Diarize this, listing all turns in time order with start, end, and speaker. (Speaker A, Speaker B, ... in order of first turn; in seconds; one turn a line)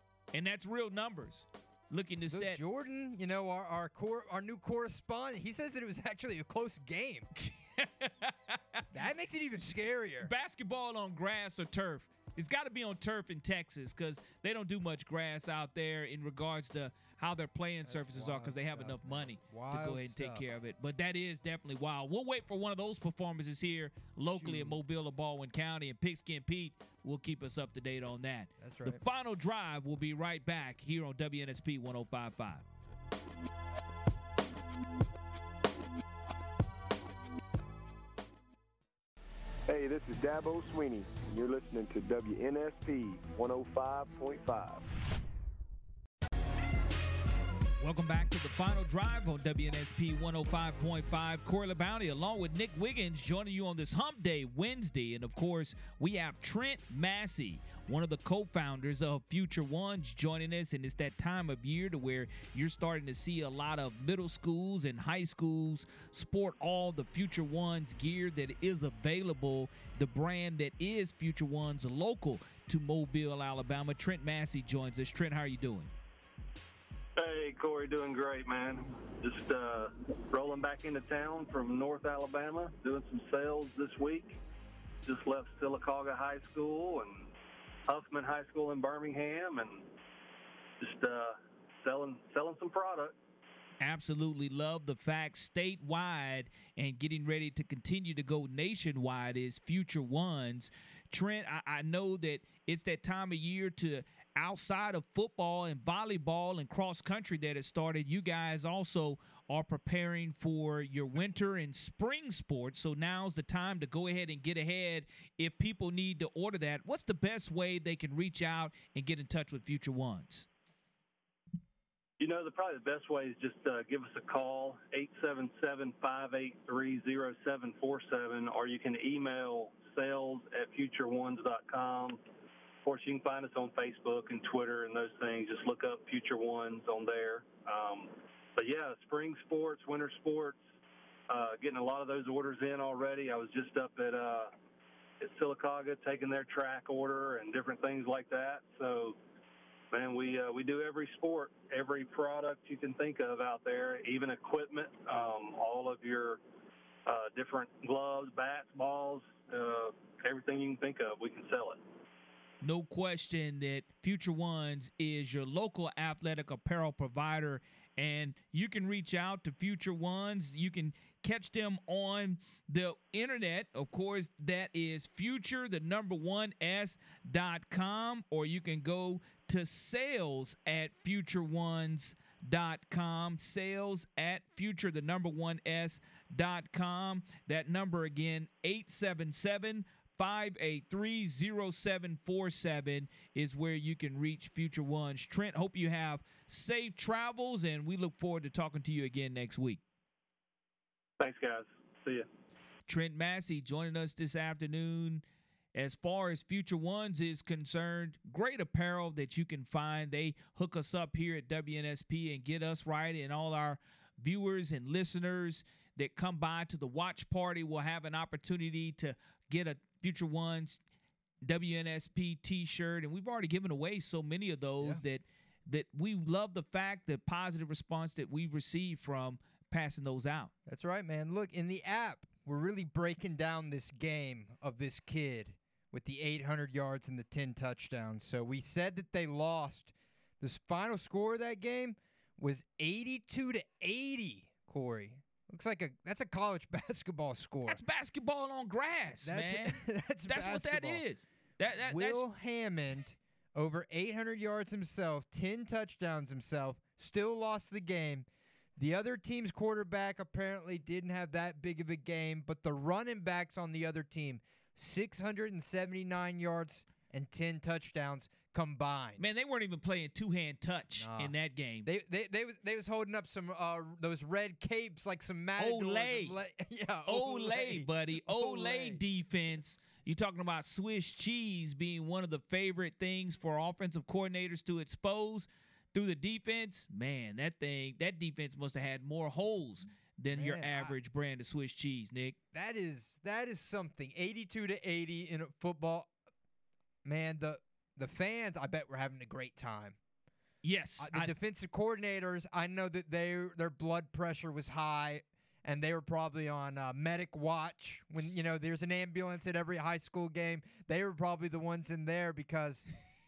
Speaker A: 0.3-2.6
Speaker B: 2.3-7.3
Speaker A: 7.4-8.8
Speaker B: 8.9-10.3
Speaker A: 10.2-32.6
Speaker B: 17.9-20.4
Speaker B: 24.3-24.8
Speaker B: 28.6-29.0
Speaker C: 39.7-44.9
Speaker A: 47.8-75.9
Speaker D: 77.2-84.4
Speaker D: 85.0-87.3
Speaker D: 87.9-89.9
Speaker D: 90.8-93.2
Speaker A: 93.8-120.5
Speaker D: 122.2-132.2
Speaker D: 132.8-140.6
Speaker D: 141.3-144.5
Speaker D: 145.2-149.2
Speaker D: 149.9-156.4
Speaker D: 157.1-161.8
Speaker A: 162.6-199.8
Speaker D: 201.2-202.3
Speaker A: 202.9-205.2
Speaker A: 205.8-220.8
Speaker A: 221.4-230.5
Speaker B: 230.7-247.8
Speaker A: 247.7-252.2
Speaker B: 249.2-251.1
Speaker B: 251.8-269.2
Speaker A: 269.2-271.9
Speaker B: 271.0-271.3
Speaker B: 271.9-279.0
Speaker A: 275.6-276.4
Speaker A: 277.1-292.4
Speaker B: 290.3-290.9
Speaker B: 292.5-296.1
Speaker B: 297.0-300.0
Speaker A: 300.6-301.3
Speaker B: 301.0-312.9